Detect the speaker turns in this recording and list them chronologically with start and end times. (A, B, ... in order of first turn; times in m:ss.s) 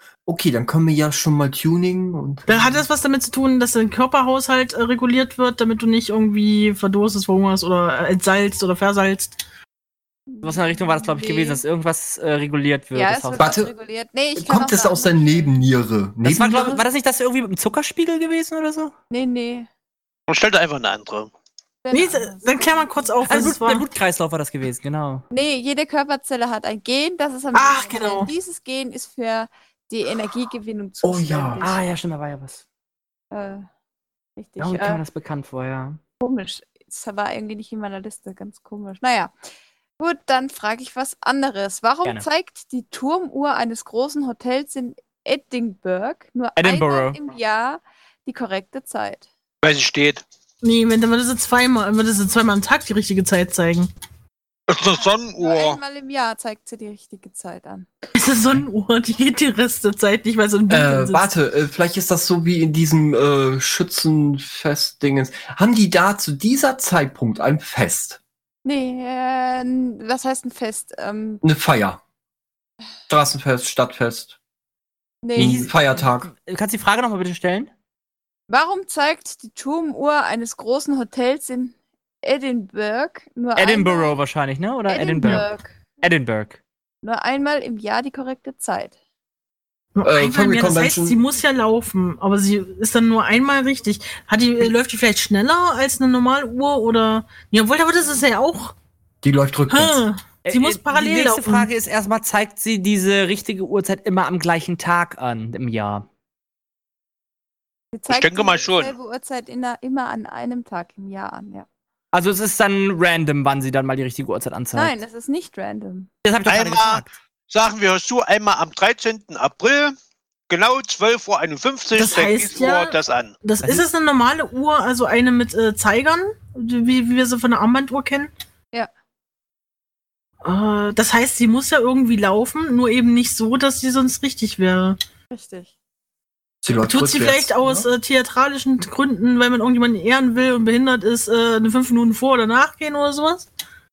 0:00.3-0:02.8 A
0:02.5-0:09.4 B
0:10.3-0:11.6 C
0:10.4-0:13.5 D
0:12.9-0:15.6 C
0:13.4-0:13.7 A
0:14.4-0:16.8 A
0:16.2-0:18.9 D
0:19.1-0:19.7 C
0:20.3-0:21.3 E
0:21.8-0:23.2 C
0:21.9-0:23.8 B
0:23.2-0:25.2 D
0:25.3-0:31.8 C
0:27.5-0:28.3 B
0:31.0-0:31.8 A
0:31.6-0:32.6 D
0:33.3-0:33.7 C
0:34.4-0:35.0 C
0:34.6-0:36.0 D
0:36.2-0:39.3 C
0:40.0-0:49.3 C
0:46.6-0:47.2 D
0:49.6-0:50.2 E
0:50.6-0:53.9 B
0:54.7-0:55.8 E
0:55.4-0:57.9 C
0:58.1-1:01.2 B
1:00.7-1:08.2 A
1:08.6-1:11.4 C
1:11.4-1:12.0 A
1:13.1-1:14.3 A
1:15.2-1:15.7 C
1:15.4-1:16.3 A
1:15.4-1:17.7 D
1:18.5-1:24.2 C
1:23.6-1:25.5 D
1:24.9-1:25.8 C
1:26.0-1:26.6 D
1:27.0-1:28.9 C
1:29.9-1:38.7 B
1:30.0-1:31.2 A
1:39.2-1:40.0 A
1:39.7-1:41.7 B
1:40.4-1:46.0 D
1:47.9-1:51.6 C
1:48.1-1:48.9 E
1:52.1-1:54.9 D
1:54.7-1:56.1 C
1:56.2-1:57.1 D
1:56.4-1:59.9 E
2:00.5-2:03.4 E
2:01.9-2:08.3 B
2:10.4-2:15.0 B
2:15.3-2:15.7 C
2:16.6-2:17.9 A
2:16.9-2:23.5 B